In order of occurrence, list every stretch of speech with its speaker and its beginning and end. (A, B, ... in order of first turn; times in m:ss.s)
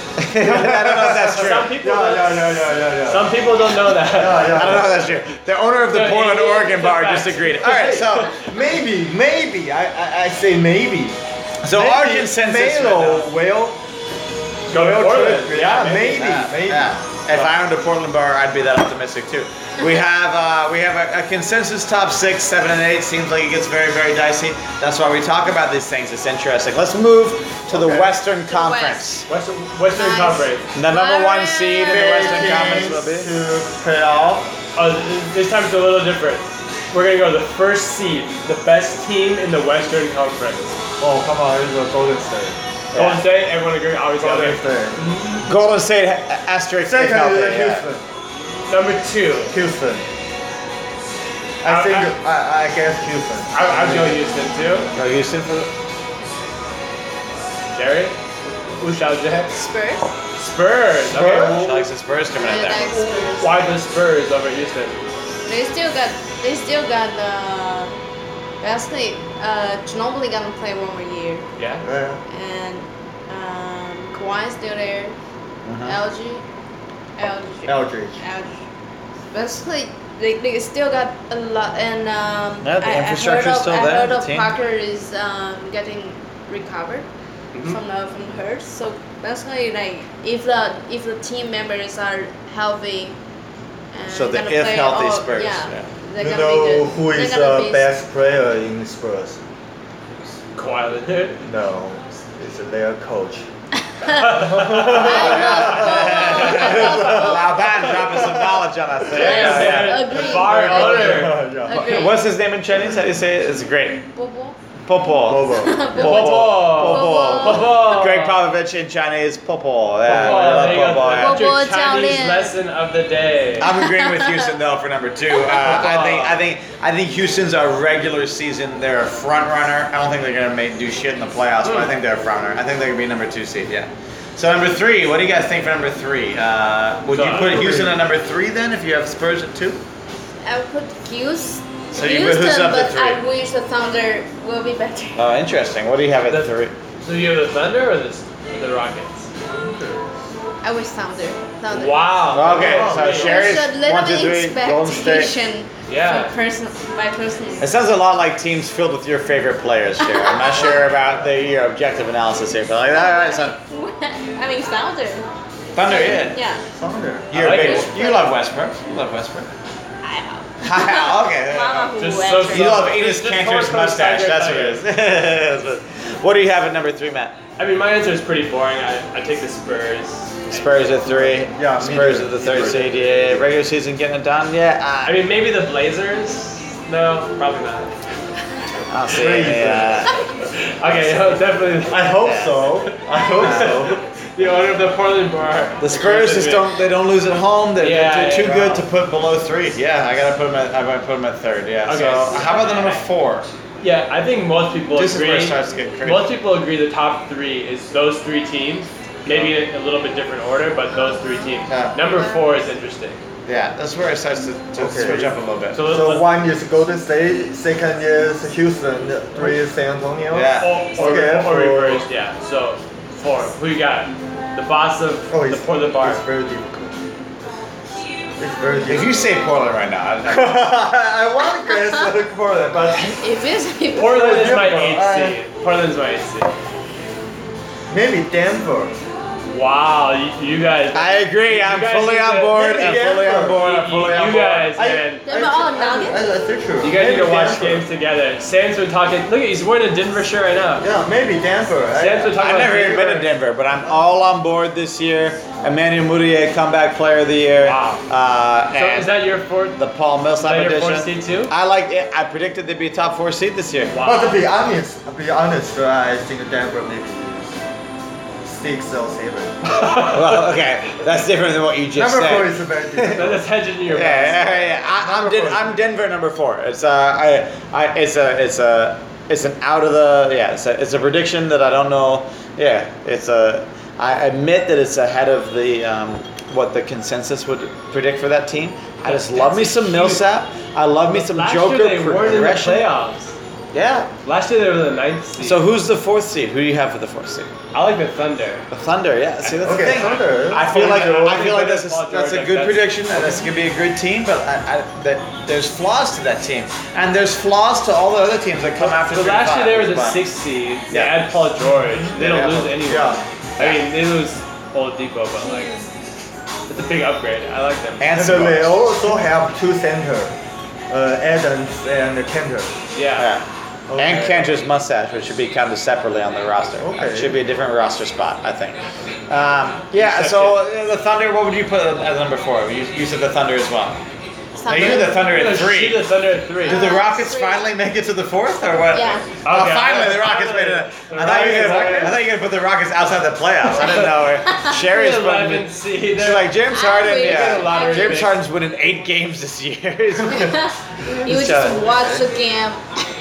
0:00.2-0:01.7 A
0:00.4-0:03.3 B
0:01.2-0:04.9 C
0:04.1-0:05.0 B
0:04.4-0:08.4 A
0:05.9-0:08.3 C
0:07.6-0:13.8 B
0:11.6-0:13.3 A
0:14.7-0:16.2 C
0:14.7-0:17.0 B
0:15.8-0:29.3 A
0:27.7-0:28.1 B
0:28.5-0:29.2 D
0:29.3-0:30.6 C
0:29.9-0:32.7 D
0:30.8-0:33.3 A
0:31.8-0:34.5 B
0:34.8-0:40.8 C
0:41.0-0:42.6 B
0:42.9-0:43.2 A
0:42.9-0:45.5 C
0:44.2-0:45.0 B
0:45.4-0:47.8 A
0:46.9-0:48.0 B
0:48.7-0:49.5 C
0:49.5-0:50.0 B
0:51.6-0:54.2 B
0:51.6-0:52.1 C
0:53.5-0:54.9 C
0:55.0-0:55.7 A
0:57.7-0:58.2 C
0:58.8-0:59.5 C
0:59.5-1:00.1 D
1:00.4-1:01.8 C
1:01.1-1:01.6 B
1:01.6-1:02.9 A
1:02.4-1:03.6 D
1:03.4-1:05.0 C
1:05.5-1:08.0 D
1:08.6-1:11.4 D
1:11.6-1:11.8 C
1:11.8-1:12.2 B
1:12.3-1:15.2 D
1:15.6-1:16.0 A
1:15.8-1:16.4 D
1:17.2-1:18.6 D
1:17.7-1:18.2 B
1:19.3-1:27.1 D
1:22.6-1:24.5 A
1:27.5-1:27.8 C
1:27.6-1:33.2 D
1:33.9-1:37.9 D
1:34.1-1:35.9 A
1:36.2-1:39.4 B
1:40.6-1:41.4 C
1:41.4-1:43.5 B
1:44.0-1:44.3 D
1:44.2-1:45.6 C
1:44.2-1:48.5 B
1:45.0-1:50.3 A
1:45.0-1:47.4 D
1:49.1-1:51.4 C
1:49.1-1:52.2 D
1:49.2-1:52.0 B
1:51.7-1:54.0 A
1:54.1-1:54.6 D
1:54.8-2:01.4 A
1:55.2-1:55.9 B
1:55.5-1:57.8 D
1:56.0-1:58.4 C
2:00.1-2:00.9 B
2:00.1-2:03.7 C
2:01.1-2:02.6 D
2:03.6-2:19.8 A
2:03.6-2:04.5 D
2:05.5-2:06.4 C
2:11.6-2:11.9 C
2:17.1-2:17.7 C
2:17.4-2:18.0 B
2:20.4-2:25.2 D
2:21.9-2:23.2 A
2:25.2-2:26.7 A
2:26.3-2:29.3 C
2:29.5-2:30.0 B
2:30.6-2:32.2 D
2:31.7-2:33.6 C
2:32.3-2:35.3 A
2:32.4-2:33.4 B
2:33.1-2:37.7 D
2:35.9-2:36.3 C
2:37.6-2:43.6 A
2:40.0-2:40.7 D
2:42.9-2:45.3 D
2:45.8-2:46.4 A
2:45.8-2:46.6 D
2:46.8-2:47.4 B
2:47.3-2:49.5 A
2:47.3-2:48.0 C
2:47.5-2:48.3 D
2:50.0-2:52.9 D
2:50.6-2:52.0 A
2:52.0-2:54.8 C
2:52.5-2:57.4 A
2:57.6-3:00.8 C
3:00.5-3:05.2 A
3:01.1-3:03.5 B
3:05.0-3:07.9 C
3:08.9-3:10.2 A
3:09.1-3:10.1 B
3:10.8-3:12.2 C
3:10.9-3:11.2 A
3:11.9-3:14.0 B
3:12.2-3:12.8 A
3:13.2-3:16.7 C
3:13.4-3:14.0 A
3:15.8-3:23.5 A
3:17.8-3:18.8 C
3:21.9-3:23.0 C
3:23.8-3:33.2 C
3:24.9-3:26.3 A
3:29.2-3:29.6 A
3:31.7-3:32.0 A
3:33.5-3:35.8 A
3:34.8-3:42.1 B
3:35.7-3:36.3 C
3:40.3-3:40.8 A
3:40.6-3:46.2 C
3:45.3-3:47.0 B
3:48.4-3:49.4 B
3:48.9-3:50.8 A
3:50.3-3:53.2 B
3:51.6-3:52.1 D
3:53.0-3:54.6 D
3:54.0-3:56.5 C
3:54.0-3:55.4 B
3:57.9-3:59.0 B
3:59.5-4:03.0 C
4:00.9-4:04.7 A
4:02.5-4:03.6 B
4:03.5-4:05.2 C
4:04.7-4:07.8 B
4:05.3-4:06.2 D
4:06.8-4:10.9 C
4:10.8-4:13.1 B
4:12.0-4:13.3 C
4:12.4-4:19.1 A
4:17.6-4:18.0 C
4:18.7-4:19.8 C
4:19.8-4:24.0 A
4:20.4-4:21.5 C
4:23.9-4:24.4 C
4:24.0-4:27.6 B
4:28.4-4:30.0 B
4:29.8-4:30.2 C
4:29.9-4:33.3 A
4:32.0-4:33.4 B
4:33.1-4:34.6 C
4:33.9-4:52.9 A
4:35.0-4:35.8 B
4:49.0-4:50.2 C
4:51.1-4:53.3 C
4:53.7-4:54.1 A
4:54.2-4:55.6 C
4:55.4-4:57.5 A
4:57.7-4:58.6 C
4:58.7-5:10.2 A
4:59.4-5:03.2 C
4:59.6-5:01.6 B
5:08.8-5:15.7 C
5:10.9-5:11.3 A
5:12.0-5:12.9 A
5:12.8-5:13.2 B
5:15.5-5:15.9 D
5:16.7-5:18.1 C
5:18.0-5:18.8 A
5:18.1-5:20.4 B
5:20.9-5:22.7 B
5:23.0-5:23.3 C
5:23.2-5:23.5 A
5:23.9-5:24.4 B
5:24.0-5:34.0 A
5:26.8-5:27.3 B
5:30.0-5:30.6 C
5:34.6-5:35.2 D
5:34.7-5:36.1 A
5:34.7-5:37.0 C
5:36.6-5:50.6 A
5:36.6-5:37.6 D
5:38.9-5:39.2 D
5:39.4-5:42.2 C
5:41.2-5:42.2 B
5:43.8-5:44.1 C
5:44.8-5:46.5 C
5:46.7-5:48.3 D
5:47.1-5:48.4 C
5:50.3-5:52.8 D
5:51.2-5:51.9 A
5:51.2-5:52.2 B